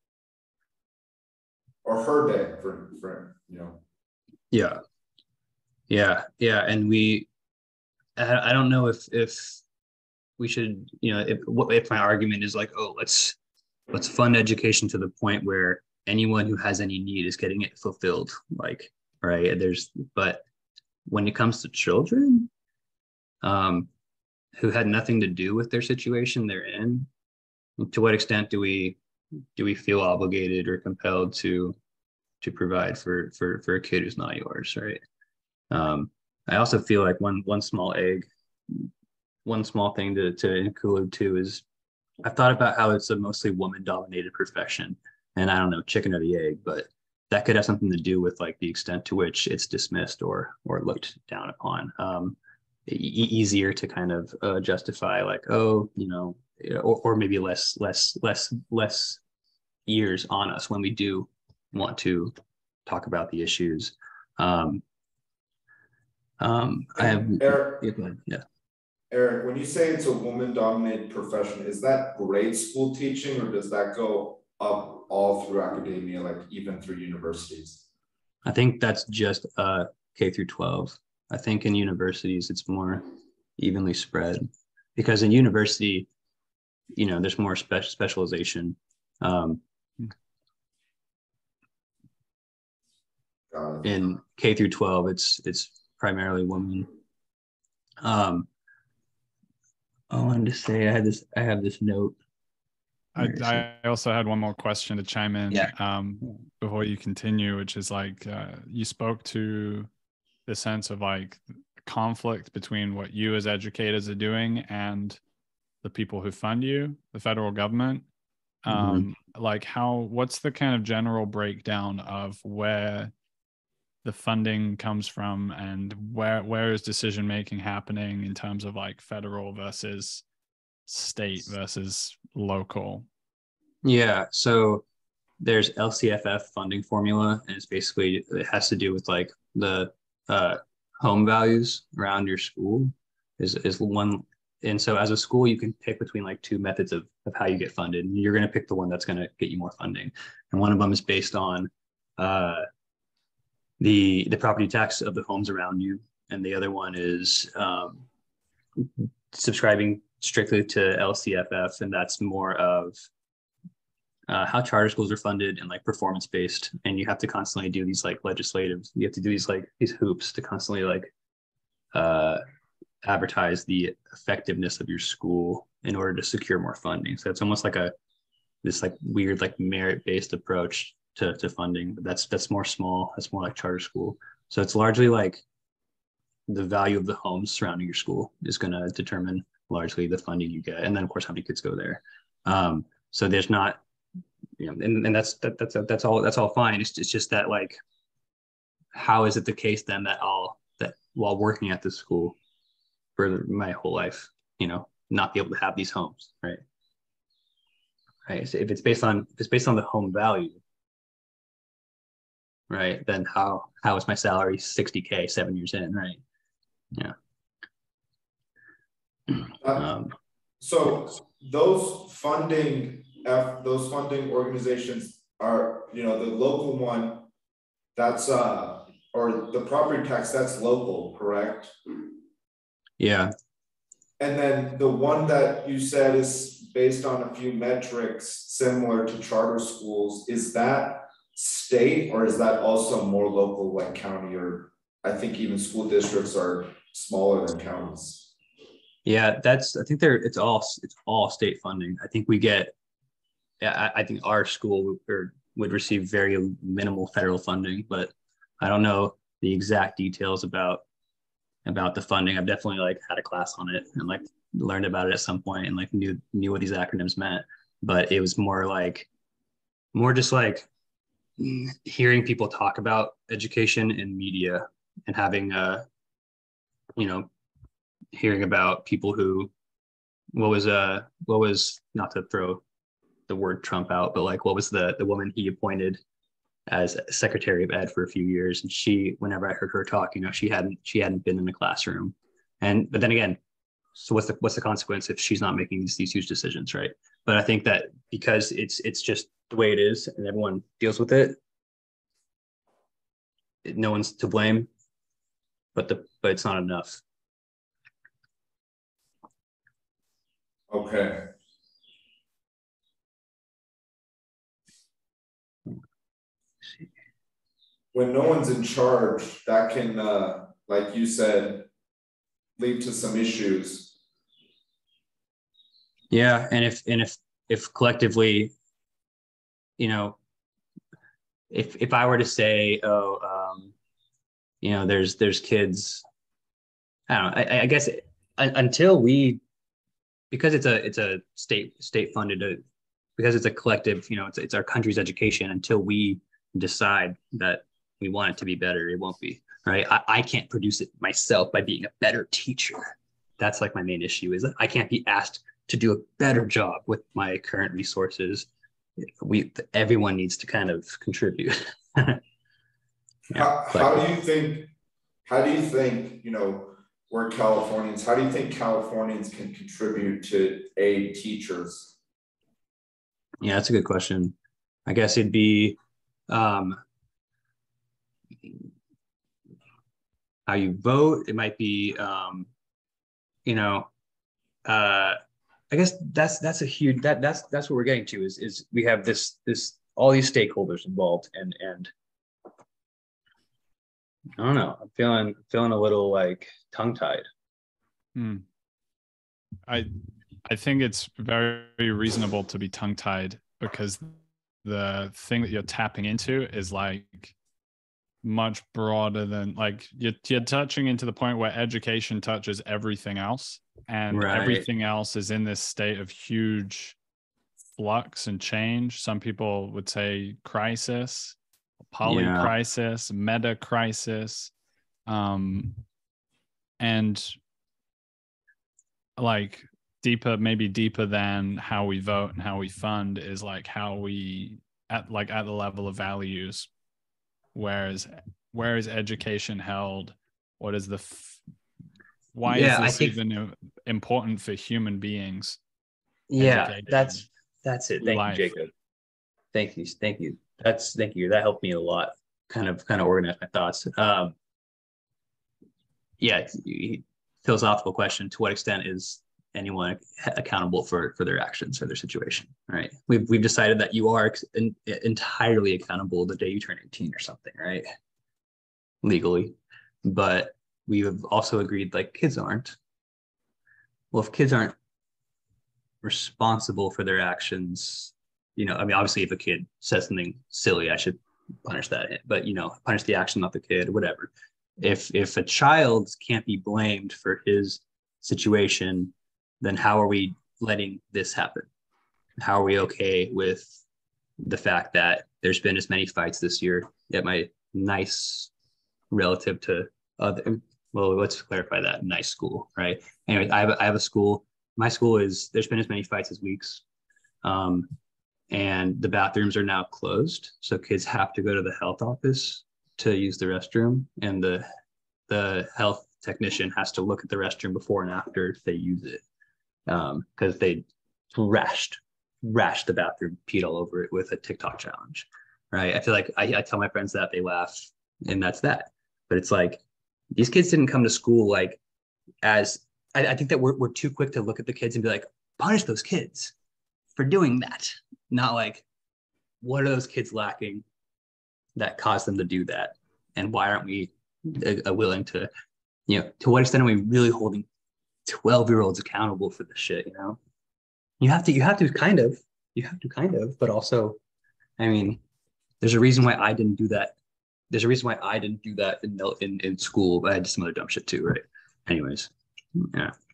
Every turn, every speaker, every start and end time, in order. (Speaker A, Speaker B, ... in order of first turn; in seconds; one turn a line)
Speaker A: 1.8-3.8
Speaker B: 4.5-4.8
Speaker B: 5.9-7.3
Speaker B: 8.2-9.6
Speaker B: 10.4-13.4
Speaker B: 13.9-20.4
Speaker B: 21.1-22.5
Speaker B: 23.4-23.9
Speaker B: 24.6-27.1
Speaker B: 27.8-29.0
Speaker B: 29.6-31.8
Speaker B: 32.4-35.0
Speaker B: 35.7-38.9
Speaker B: 39.5-41.6
Speaker B: 42.2-59.2
Speaker B: 59.9-62.3
Speaker B: 62.9-64.8
Speaker B: 66.4-68.4
Speaker A: 67.0-67.9
Speaker A: 69.1-77.8
Speaker B: 78.5-83.1
Speaker B: 83.6-86.1
Speaker B: 87.0-89.6
Speaker A: 93.5-93.9
Speaker B: 93.8-96.9
Speaker B: 98.0-98.5
Speaker B: 100.1-102.2
Speaker C: 103.2-109.9
Speaker B: 103.2-103.6
Speaker C: 110.5-115.2
Speaker C: 115.8-118.1
Speaker C: 118.6-123.1
Speaker B: 118.7-119.1
Speaker C: 124.0-130.2
Speaker C: 130.9-133.1
Speaker B: 133.8-134.8
Speaker B: 135.4-152.7
Speaker B: 153.8-158.1
Speaker B: 158.8-163.1
Speaker B: 164.3-171.1
Speaker B: 171.9-172.4
Speaker B: 173.0-177.9
Speaker B: 178.6-185.4
Speaker B: 186.5-193.8
Speaker B: 194.6-197.8
Speaker B: 198.9-202.4
Speaker B: 203.2-206.6
Speaker B: 208.3-210.6
Speaker B: 212.7-216.2
Speaker B: 219.3-220.1
Speaker A: 219.6-219.8
Speaker A: 220.6-227.3
Speaker A: 227.9-231.7
Speaker B: 233.0-233.3
Speaker A: 234.2-248.3
Speaker B: 249.1-252.7
Speaker B: 253.6-260.8
Speaker B: 261.6-269.1
Speaker B: 269.9-270.7
Speaker B: 271.4-275.9
Speaker B: 277.0-277.3
Speaker B: 278.1-279.5
Speaker B: 280.3-282.6
Speaker B: 283.3-286.0
Speaker B: 286.7-293.4
Speaker B: 293.9-301.4
Speaker B: 303.6-304.7
Speaker B: 305.8-307.0
Speaker A: 310.7-311.3
Speaker A: 317.9-321.7
Speaker A: 322.6-323.9
Speaker B: 326.1-328.5
Speaker B: 329.8-330.2
Speaker B: 331.5-333.7
Speaker B: 334.6-336.0
Speaker B: 337.1-339.4
Speaker B: 340.3-342.6
Speaker B: 343.2-358.5
Speaker B: 359.0-362.2
Speaker B: 363.3-364.0
Speaker A: 363.3-364.7
Speaker A: 365.3-372.0
Speaker B: 373.4-374.4
Speaker B: 374.9-375.8
Speaker B: 376.3-376.8
Speaker B: 380.5-382.5
Speaker B: 383.5-383.9
Speaker B: 384.6-385.2
Speaker B: 385.7-391.9
Speaker B: 394.4-397.3
Speaker C: 398.2-398.4
Speaker C: 399.7-399.9
Speaker C: 400.4-404.1
Speaker C: 404.6-407.4
Speaker C: 408.2-417.0
Speaker B: 414.1-414.6
Speaker C: 417.8-421.4
Speaker C: 421.9-424.5
Speaker B: 422.1-422.5
Speaker C: 425.1-425.8
Speaker C: 426.8-427.4
Speaker C: 429.2-436.7
Speaker C: 437.5-441.4
Speaker C: 442.3-445.6
Speaker B: 442.5-443.1
Speaker B: 446.3-448.7
Speaker C: 446.4-447.2
Speaker C: 448.0-448.5
Speaker B: 449.5-454.3
Speaker B: 456.2-467.9
Speaker B: 469.0-472.8
Speaker B: 474.1-474.8
Speaker B: 476.0-491.7
Speaker B: 492.4-493.7
Speaker B: 494.4-498.5
Speaker B: 499.1-506.8
Speaker B: 507.4-507.9
Speaker B: 508.5-514.6
Speaker B: 515.3-519.2
Speaker B: 519.9-529.8
Speaker B: 530.3-531.8
Speaker B: 532.4-536.5
Speaker B: 537.2-538.9
Speaker B: 539.6-540.8
Speaker B: 541.8-545.5
Speaker B: 546.1-547.7
Speaker B: 548.3-550.4
Speaker B: 551.2-554.2
Speaker B: 554.8-555.2
Speaker B: 555.8-557.1
Speaker B: 557.7-563.1